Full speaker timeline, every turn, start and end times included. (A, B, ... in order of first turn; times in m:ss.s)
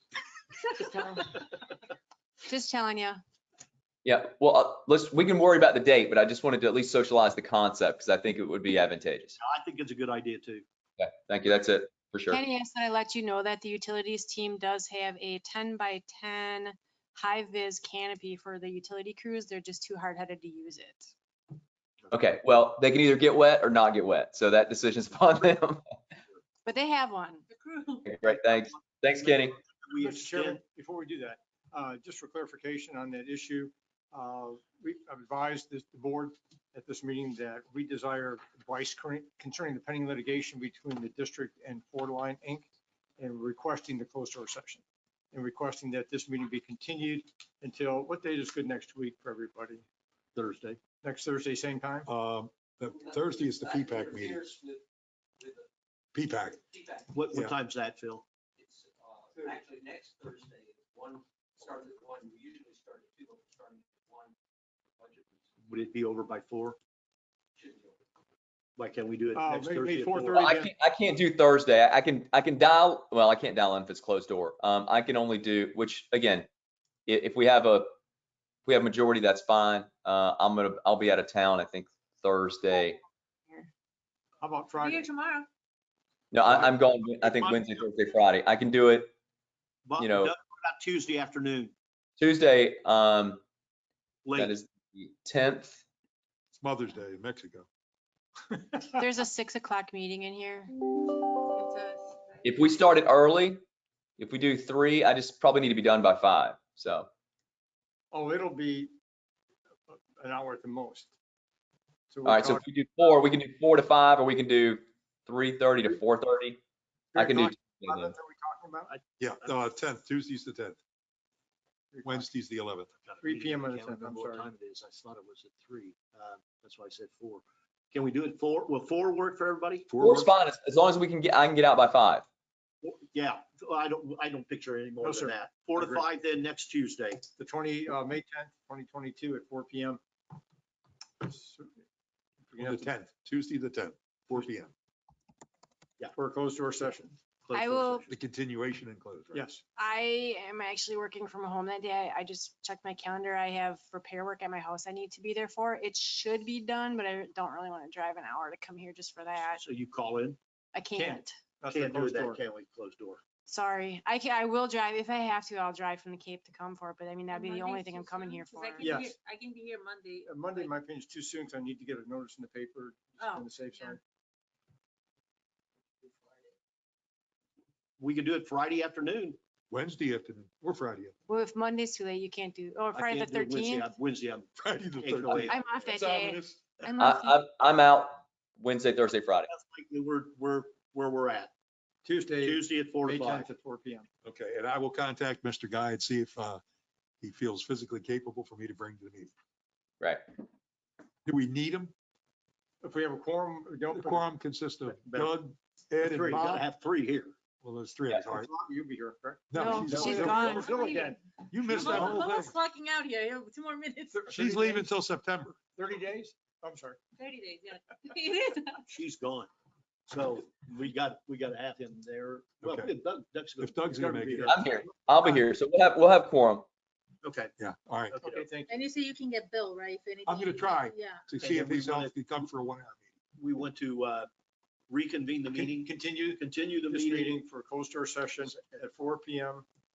0:00.7-0:01.3 A
0:02.5-0:03.2 A
0:04.0-0:09.4 B
0:09.4-0:10.6 C
0:11.0-0:12.4 B
0:12.3-0:21.1 A
0:22.1-0:25.8 B
0:26.6-0:27.4 A
0:27.5-0:28.0 D
0:28.0-0:29.6 B
0:28.2-0:30.6 C
0:30.0-0:42.6 E
0:43.2-0:49.8 E
0:50.3-0:50.8 C
0:51.0-0:52.1 E
0:52.1-0:54.5 F
0:53.0-0:54.8 G
0:55.4-0:55.6 G
0:56.1-0:56.6 F
0:56.7-0:57.0 G
0:57.1-0:58.2 C
0:58.6-1:04.3 G
1:05.0-1:05.3 G
1:05.6-1:06.8 C
1:07.6-1:07.9 G
1:08.8-1:10.4 C
1:09.4-1:10.7 E
1:10.3-1:16.5 B
1:17.1-1:17.9 B
1:18.6-1:23.0 B
1:24.4-1:25.1 E
1:24.8-1:25.5 D
1:26.3-1:29.1 B
1:27.0-1:27.8 C
1:29.8-1:31.7 C
1:30.0-1:30.3 B
1:32.2-1:33.4 B
1:34.2-1:34.5 C
1:34.4-1:35.8 B
1:36.5-1:37.7 F
1:39.0-1:40.7 A
1:41.5-1:42.4 D
1:42.4-1:43.6 B
1:44.2-1:47.1 B
1:48.1-1:48.9 E
1:49.9-1:51.1 E
1:52.1-1:52.6 E
1:52.2-1:56.6 B
1:57.1-1:58.1 B
1:57.1-1:58.9 E
1:58.9-1:59.5 C
1:59.2-2:00.8 F
2:01.9-2:02.2 E
2:02.0-2:02.9 F
2:03.0-2:09.9 C
2:03.2-2:04.4 E
2:09.9-2:10.3 F
2:10.0-2:12.2 B
2:12.8-2:17.2 C
2:15.0-2:16.0 E
2:17.4-2:20.0 E
2:21.2-2:21.8 E
2:22.5-2:22.9 E
2:22.6-2:24.7 F
2:26.1-2:27.2 E
2:27.4-2:28.1 C
2:27.5-2:28.0 A
2:28.1-2:29.4 F
2:29.3-2:29.6 E
2:29.8-2:39.6 A
2:39.6-2:40.4 C
2:40.7-2:41.3 A
2:41.0-2:42.4 E
2:41.7-2:43.2 C
2:43.5-2:48.9 A
2:47.3-2:50.7 D
2:48.8-2:49.1 E
2:50.2-2:54.0 E
2:53.2-2:54.0 D
2:58.0-2:59.4 C
2:59.7-3:01.1 F
3:01.3-3:04.0 A
3:02.9-3:05.6 C
3:04.6-3:06.6 F
3:05.3-3:07.4 A
3:07.0-3:09.5 B
3:09.5-3:11.5 C
3:12.0-3:14.1 E
3:12.4-3:13.5 C
3:14.2-3:16.6 F
3:17.2-3:19.3 F
3:21.2-3:21.9 F
3:22.8-3:24.2 E
3:23.9-3:26.6 F
3:24.8-3:25.3 C
3:26.0-3:26.4 E
3:26.2-3:27.3 C
3:27.6-3:28.5 F
3:28.4-3:31.2 E
3:29.5-3:30.6 F
3:29.6-3:30.7 A
3:30.1-3:34.3 D
3:31.5-3:32.5 F
3:34.1-3:34.8 E
3:34.3-3:35.6 F
3:35.8-3:37.0 E
3:37.2-3:38.8 D
3:38.9-3:39.5 C
3:40.1-3:44.6 C
3:42.6-3:42.9 F
3:43.6-3:44.5 F
3:43.9-3:45.0 E
3:44.5-3:46.6 B
3:47.2-3:47.5 C
3:47.6-3:48.1 F
3:48.1-3:48.4 C
3:48.3-3:48.8 E
3:48.7-3:51.4 D
3:50.2-3:53.1 F
3:51.4-3:52.4 C
3:53.4-3:54.3 C
3:54.9-3:57.4 C
3:55.7-3:56.2 E
3:56.9-3:59.6 E
3:58.5-3:58.8 C